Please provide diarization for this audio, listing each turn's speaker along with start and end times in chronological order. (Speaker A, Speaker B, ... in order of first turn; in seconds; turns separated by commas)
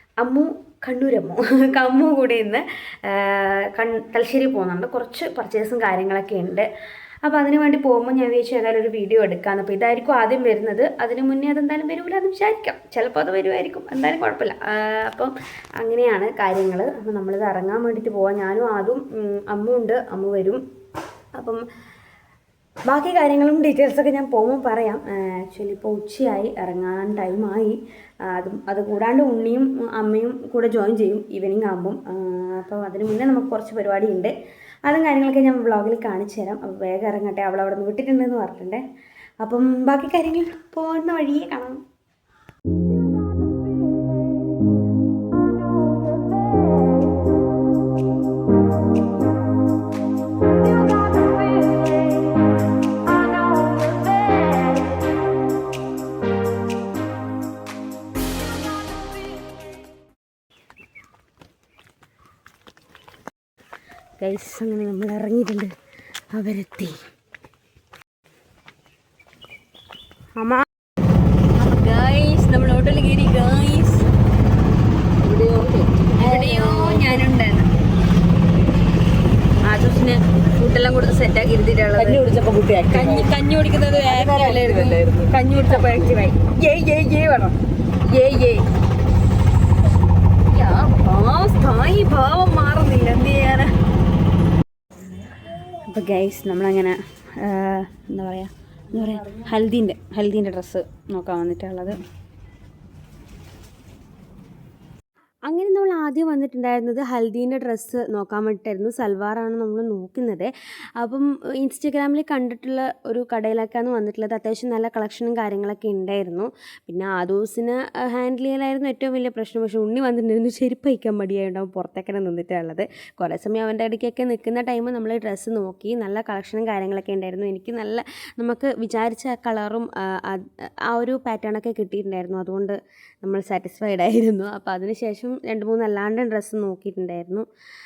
Speaker A: 0.2-6.7, Speaker A: 7.2-20.6, Speaker A: 21.4-21.6, Speaker A: 22.9-38.8, Speaker A: 39.4-41.8, Speaker A: 64.2-65.8, Speaker A: 66.3-67.0, Speaker A: 70.4-70.6, Speaker A: 71.5-74.1, Speaker B: 75.2-76.3, Speaker A: 76.2-77.7, Speaker A: 79.6-82.2, Speaker B: 82.0-83.3, Speaker A: 82.9-88.7, Speaker B: 84.1-85.8, Speaker A: 90.5-93.7, Speaker A: 95.8-102.0, Speaker A: 105.5-137.5